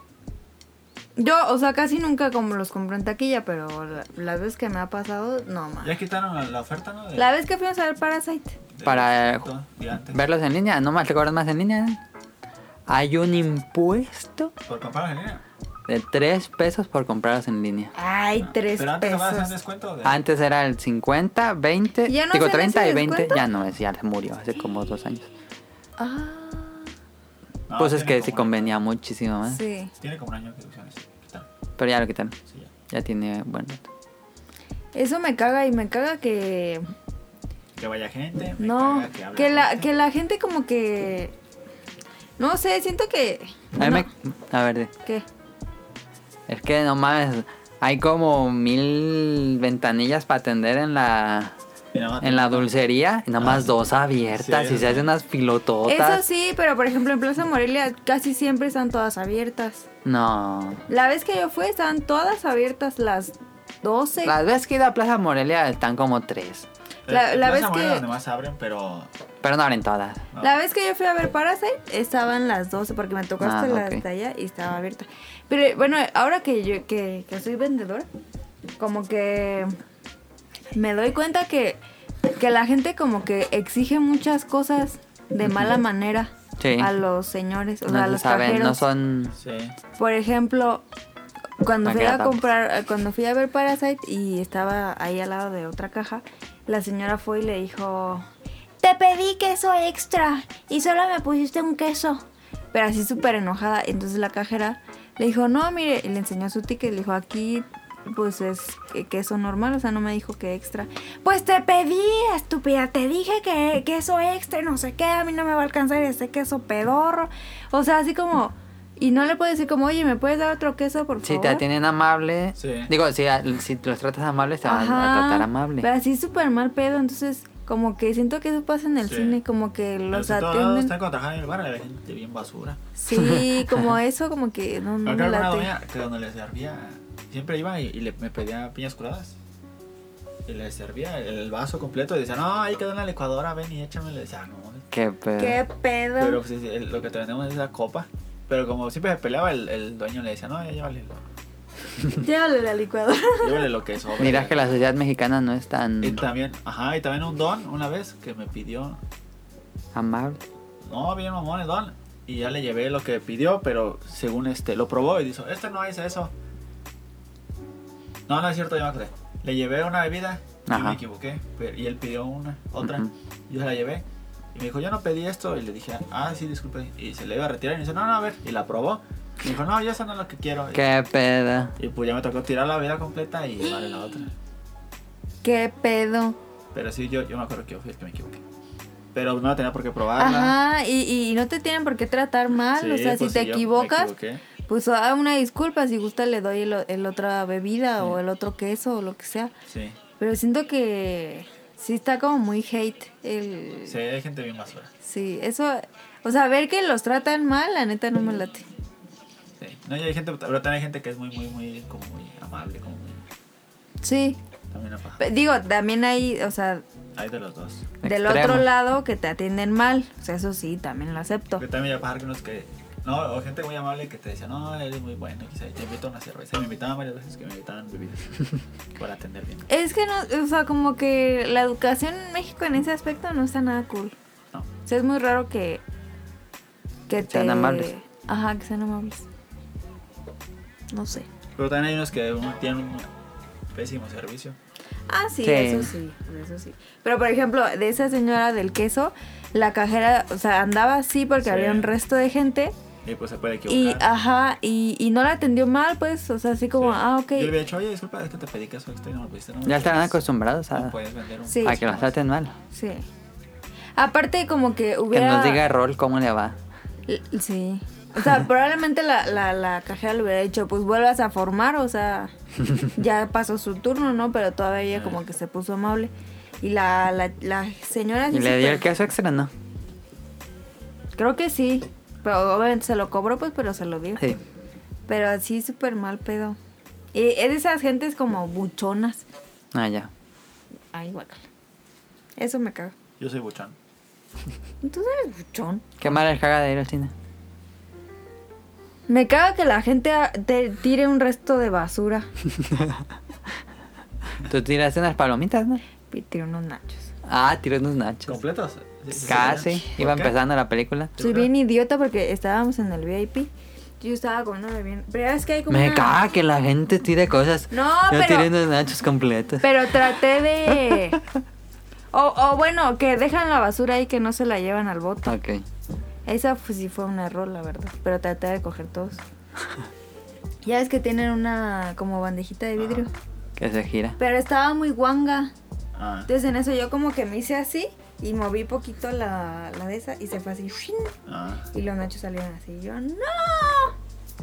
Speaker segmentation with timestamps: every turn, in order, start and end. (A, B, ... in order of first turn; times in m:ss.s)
0:01.2-0:05.9 A
0:05.8-0:07.3 B
0:07.2-0:08.6 A
0:08.7-0:10.2 B
0:08.8-0:09.5 C
0:10.1-0:12.0 C
0:12.9-0:14.5 C
0:14.7-0:15.4 B
0:15.9-0:17.9 C
0:17.9-0:19.5 A
0:18.4-0:20.2 B
0:20.0-0:25.3 C
0:22.1-0:23.4 A
0:26.0-0:26.9 A
0:27.7-0:28.8 B
0:27.8-0:29.6 C
0:29.5-0:29.9 A
0:30.0-0:31.5 B
0:31.8-0:32.3 C
0:32.9-0:33.9 C
0:34.9-0:36.9 A
0:37.8-0:39.9 B
0:38.6-0:41.3 A
0:42.4-0:44.1 A
0:43.8-0:44.9 C
0:46.5-0:51.6 C
0:51.9-0:52.6 B
0:52.2-0:56.2 C
0:53.4-0:53.7 B
0:54.3-0:55.1 B
0:55.9-0:59.9 A
1:00.0-1:00.8 C
1:00.9-1:04.4 A
1:04.2-1:06.7 C
1:07.1-1:09.1 B
1:07.1-1:08.0 A
1:09.4-1:10.2 C
1:10.4-1:18.1 A
1:13.4-1:14.0 C
1:18.8-1:19.8 A
1:20.7-1:21.8 A
1:22.3-1:28.8 A
1:26.6-1:26.9 C
1:27.9-1:29.4 C
1:29.4-1:29.8 B
1:30.0-1:30.8 A
1:31.6-1:38.2 A
1:31.8-1:32.4 C
1:38.8-2:01.6 A
2:01.2-2:05.9 C
2:02.6-2:02.9 B
2:04.6-2:10.9 A
2:09.0-2:09.4 B
2:10.1-2:12.8 B
2:13.0-2:15.7 A
2:13.1-2:13.8 C
2:15.0-2:19.4 B
2:20.4-2:24.8 B
2:24.9-2:25.6 C
2:25.4-2:26.4 A
2:26.2-2:31.2 B
2:32.2-2:33.7 A
2:33.4-2:34.8 B
2:34.2-2:36.2 C
2:36.0-2:39.0 B
2:39.9-2:40.4 C
2:40.8-2:46.3 B
2:48.3-3:00.9 B
2:50.7-2:51.0 C
2:52.8-2:53.1 C
3:00.7-3:01.8 C
3:01.8-3:04.3 B
3:05.4-3:06.4 A
3:06.7-3:08.4 B
3:09.1-3:10.6 B
3:10.2-3:14.1 A
3:12.8-3:14.4 B
3:14.7-3:19.5 A
3:19.7-3:20.0 B
3:20.2-3:24.0 A
3:23.8-3:24.9 B
3:25.0-3:28.6 A
3:29.6-3:33.2 B
3:34.0-3:34.4 A
3:34.7-3:35.2 B
3:35.2-3:36.8 A
3:37.2-3:37.9 B
3:38.0-3:38.7 C
3:38.0-3:41.6 A
3:41.6-3:48.4 B
3:49.0-3:49.6 B
3:49.7-3:54.1 A
3:54.8-3:55.8 A
3:57.1-3:59.2 A
3:57.2-3:57.9 C
4:00.9-4:01.3 A
4:01.6-4:03.1 B
4:03.7-4:04.6 B
4:05.1-4:12.7 A
4:05.4-4:05.9 C
4:11.4-4:11.9 B
4:13.0-4:14.1 B
4:13.7-4:17.5 A
4:16.8-4:22.2 B
4:19.6-4:21.0 C
4:21.5-4:21.8 A
4:21.6-4:22.5 C
4:22.7-4:23.0 A
4:24.0-4:25.6 A
4:25.1-4:26.6 C
4:27.1-4:32.3 A
4:32.9-4:38.8 A
4:34.9-4:35.2 B
4:38.3-4:39.5 C
4:41.2-4:44.2 A
4:45.1-4:46.6 A
4:47.1-4:49.2 A
4:49.7-4:50.1 C
4:50.9-4:51.4 A
4:52.4-4:52.9 A
4:53.2-4:53.8 B
4:54.8-4:55.9 A
4:56.0-4:57.1 C
4:59.1-5:02.3 A
5:02.5-5:03.0 C
5:04.4-5:05.8 C
5:06.1-5:07.1 A
5:07.3-5:08.4 C
5:08.3-5:10.3 B
5:09.1-5:11.1 C
5:11.2-5:11.5 B
5:11.2-5:16.2 A
5:15.7-5:19.7 C
5:17.7-5:18.5 A
5:19.6-5:21.2 A
5:22.1-5:25.4 A
5:25.2-5:25.6 C
5:26.3-5:29.2 A
5:30.6-5:33.1 A
5:32.8-5:33.1 B
5:33.6-5:34.2 C
5:34.2-5:35.5 A
5:35.9-5:36.3 B
5:36.3-5:41.1 A
5:41.3-5:41.7 B
5:41.7-5:43.9 A